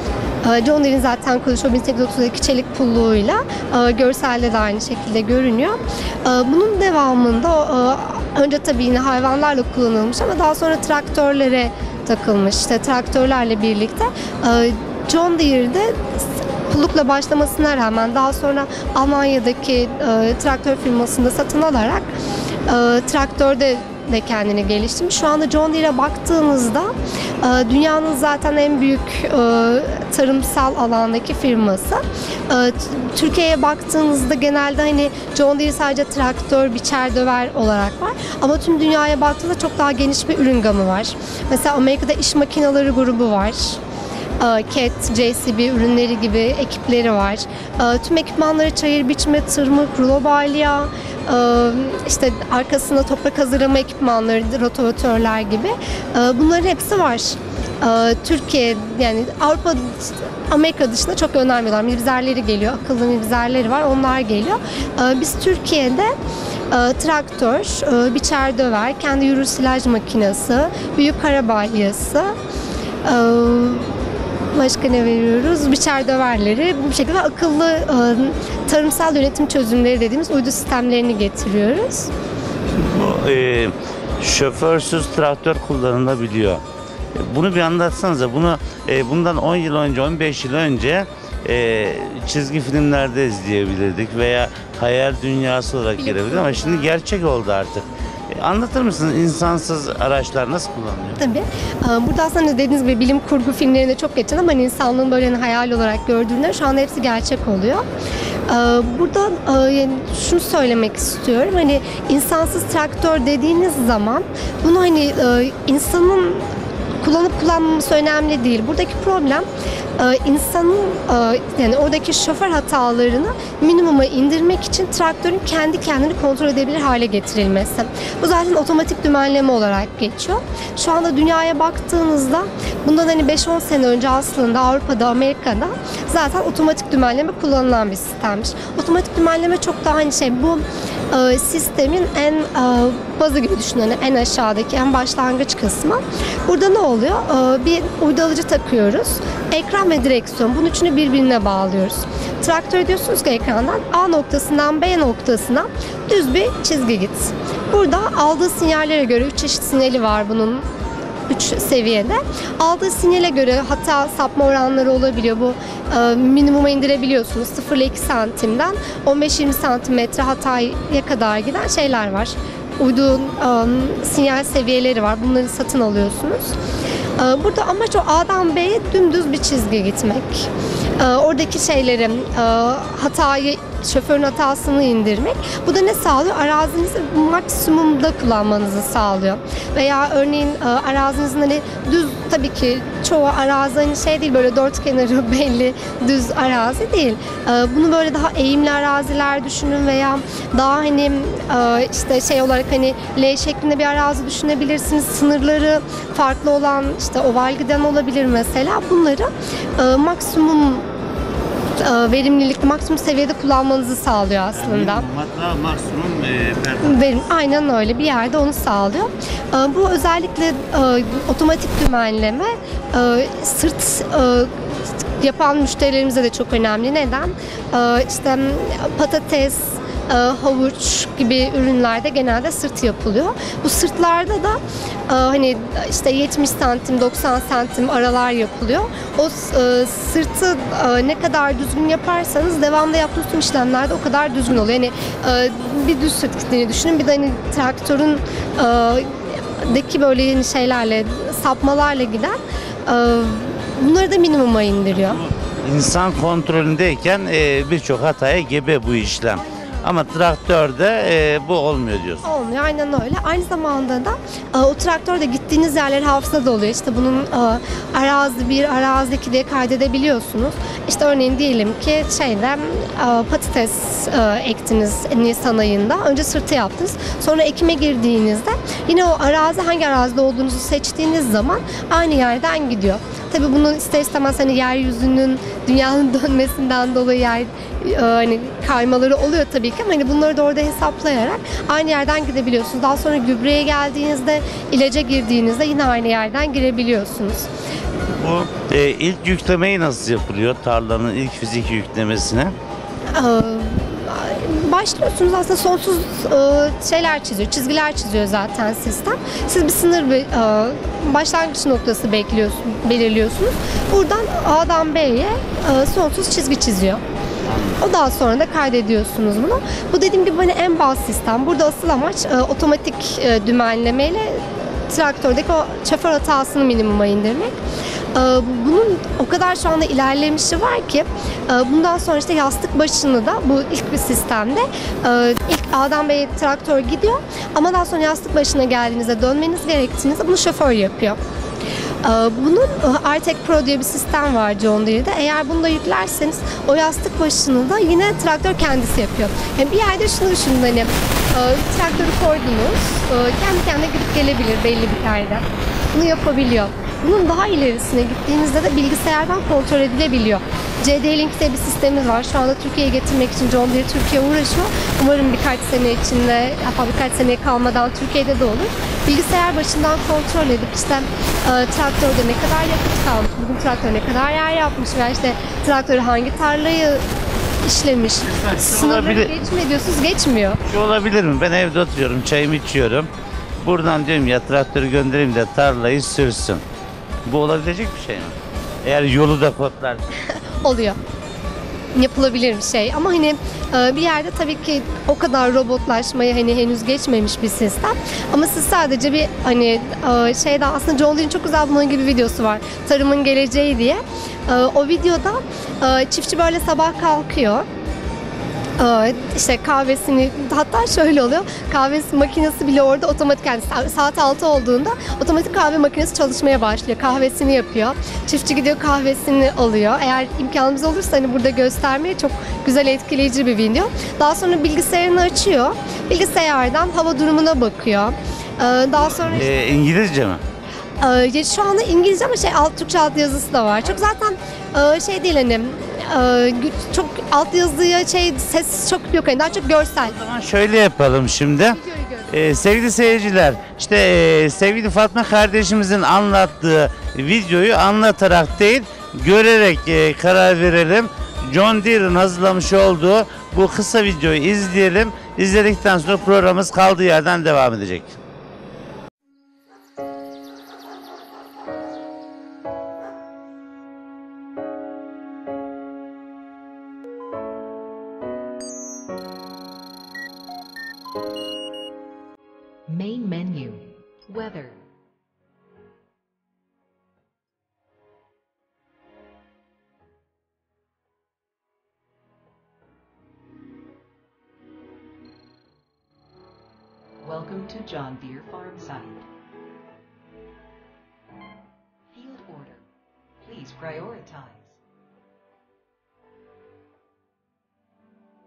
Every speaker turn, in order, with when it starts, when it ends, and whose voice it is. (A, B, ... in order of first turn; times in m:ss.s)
0:00.4-0:22.1 A
0:22.7-0:43.8 A
0:44.4-1:06.1 A
1:06.7-1:12.3 A
1:13.0-1:14.0 A
1:14.5-1:22.1 A
1:22.7-1:26.6 B
1:27.1-1:41.2 B
1:36.0-1:36.9 A
1:41.2-1:47.8 A
1:48.5-1:56.5 A
1:57.0-1:59.4 A
2:00.0-2:40.6 A
2:41.3-2:56.6 A
2:57.2-3:30.8 A
3:31.8-3:35.0 A
3:34.5-3:37.0 B
3:36.8-3:44.7 A
3:45.2-4:15.2 A
4:14.9-4:22.2 B
4:19.3-4:19.9 A
4:22.2-4:57.5 A
4:58.2-5:02.5 B
5:03.1-5:17.0 A
5:17.4-5:17.8 B
5:17.8-5:27.5 A
5:28.1-5:41.2 A
5:42.0-6:17.0 A
6:17.6-6:20.6 A
6:18.3-6:19.3 B
6:20.6-6:23.1 B
6:23.6-6:26.6 B
6:27.2-6:30.0 B
6:30.3-6:31.0 A
6:31.9-6:47.6 A
6:48.8-7:09.5 A
7:09.3-7:10.4 B
7:11.0-7:20.2 A
7:20.0-7:38.2 B
7:21.7-7:22.3 A
7:52.9-7:54.8 C
8:07.2-8:09.3 C
8:12.1-8:12.8 C
8:13.4-8:14.8 C